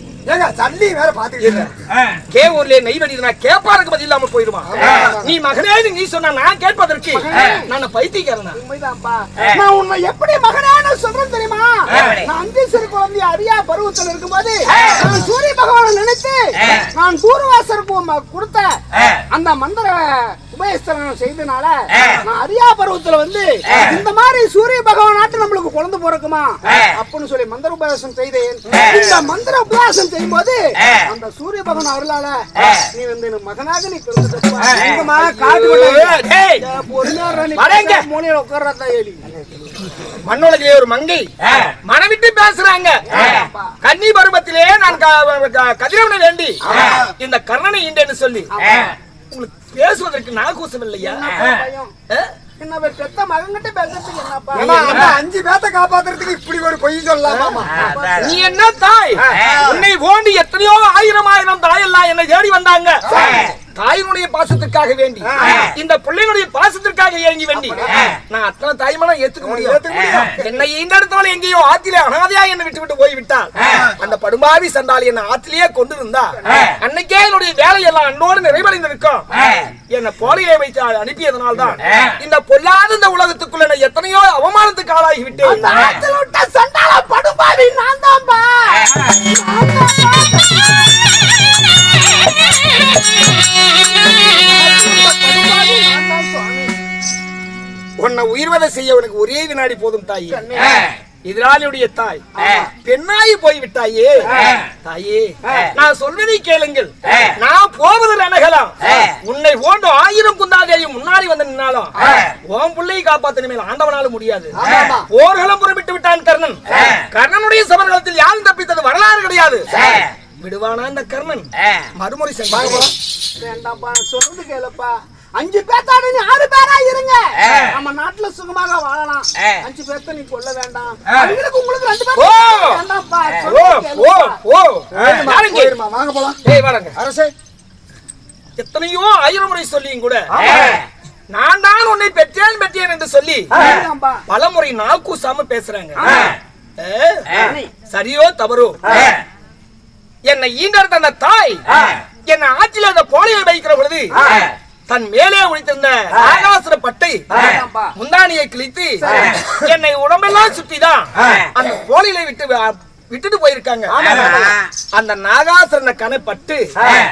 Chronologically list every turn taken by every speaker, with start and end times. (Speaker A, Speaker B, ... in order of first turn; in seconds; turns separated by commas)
Speaker A: 0.3-1.7, Speaker B: 1.4-8.6, Speaker A: 4.7-5.4, Speaker C: 7.1-7.7, Speaker C: 8.5-18.8, Speaker C: 19.3-35.2, Speaker A: 34.8-36.2, Speaker B: 35.1-36.6, Speaker C: 36.6-39.5, Speaker B: 37.5-38.0, Speaker B: 40.2-48.5, Speaker C: 43.1-43.8, Speaker A: 46.7-47.1, Speaker C: 48.5-48.9, Speaker B: 49.3-52.3, Speaker C: 51.0-51.9, Speaker C: 52.6-55.0, Speaker A: 54.5-57.9, Speaker B: 54.6-55.1, Speaker C: 57.6-58.5, Speaker B: 58.2-86.0, Speaker A: 59.2-59.8, Speaker A: 63.1-63.5, Speaker C: 63.1-63.5, Speaker A: 65.2-65.7, Speaker A: 67.8-68.1, Speaker A: 69.4-70.5, Speaker C: 85.4-91.5, Speaker C: 94.0-96.7, Speaker B: 98.0-100.5, Speaker C: 100.3-100.9, Speaker B: 101.2-122.9, Speaker C: 102.4-102.7, Speaker A: 114.6-115.1, Speaker A: 122.5-122.9, Speaker C: 123.4-134.4, Speaker B: 132.2-132.8, Speaker B: 133.4-135.8, Speaker A: 134.9-136.4, Speaker B: 136.4-137.0, Speaker A: 137.0-137.3, Speaker B: 138.6-140.7, Speaker A: 140.3-140.8, Speaker B: 141.3-143.6, Speaker C: 143.5-144.2, Speaker B: 144.3-147.4, Speaker C: 146.0-146.4, Speaker C: 147.3-147.7, Speaker B: 147.9-149.2, Speaker B: 150.2-151.6, Speaker B: 152.3-154.3, Speaker C: 154.2-154.4, Speaker B: 154.9-157.4, Speaker C: 157.3-158.0, Speaker B: 158.0-166.7, Speaker C: 159.0-159.3, Speaker A: 163.9-164.6